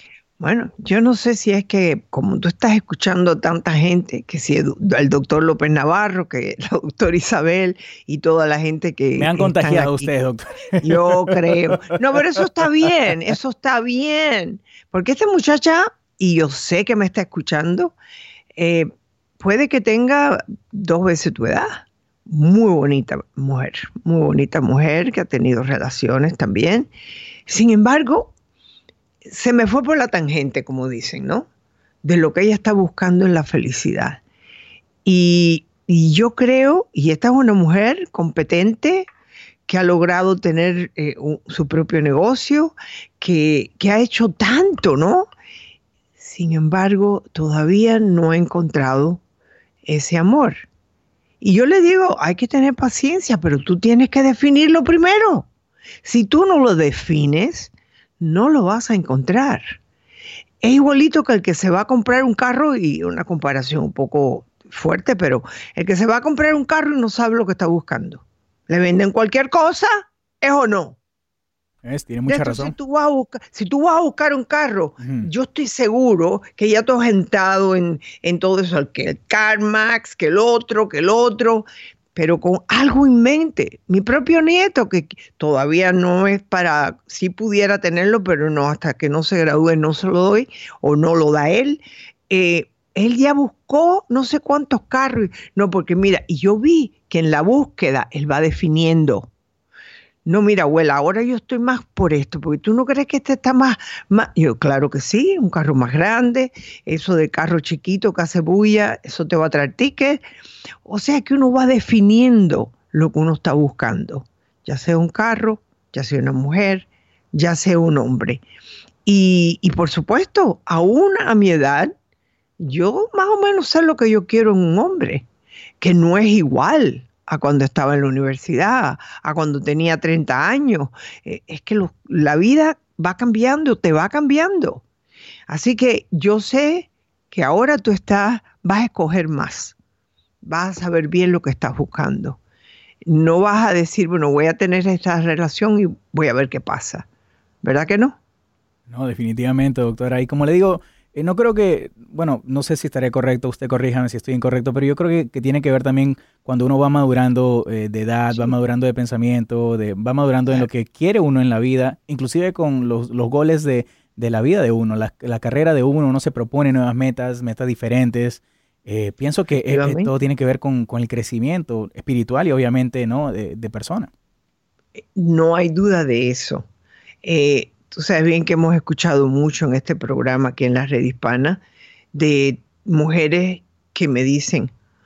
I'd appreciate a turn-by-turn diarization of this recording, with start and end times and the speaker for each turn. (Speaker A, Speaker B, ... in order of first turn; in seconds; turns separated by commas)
Speaker A: 0.4-10.1, Speaker B: 9.2-12.4, Speaker A: 10.8-17.9, Speaker A: 18.6-26.9, Speaker A: 27.5-28.3, Speaker A: 29.2-31.5, Speaker A: 32.0-34.2, Speaker A: 35.0-39.1, Speaker A: 39.7-45.3, Speaker A: 46.2-49.2, Speaker A: 49.9-50.6, Speaker A: 51.4-55.5, Speaker A: 56.0-59.8, Speaker A: 60.6-71.0, Speaker B: 71.8-72.8, Speaker A: 72.3-99.3, Speaker B: 75.0-75.3, Speaker A: 100.2-110.2, Speaker A: 110.8-118.4, Speaker A: 119.0-122.0, Speaker A: 122.6-125.2, Speaker A: 125.8-134.8, Speaker A: 135.5-139.8, Speaker A: 140.4-142.4, Speaker A: 143.0-147.1, Speaker A: 147.6-148.2, Speaker B: 148.9-174.1, Speaker A: 158.3-158.6, Speaker A: 169.6-170.1, Speaker A: 175.0-176.7, Speaker A: 177.2-181.6, Speaker A: 182.1-184.7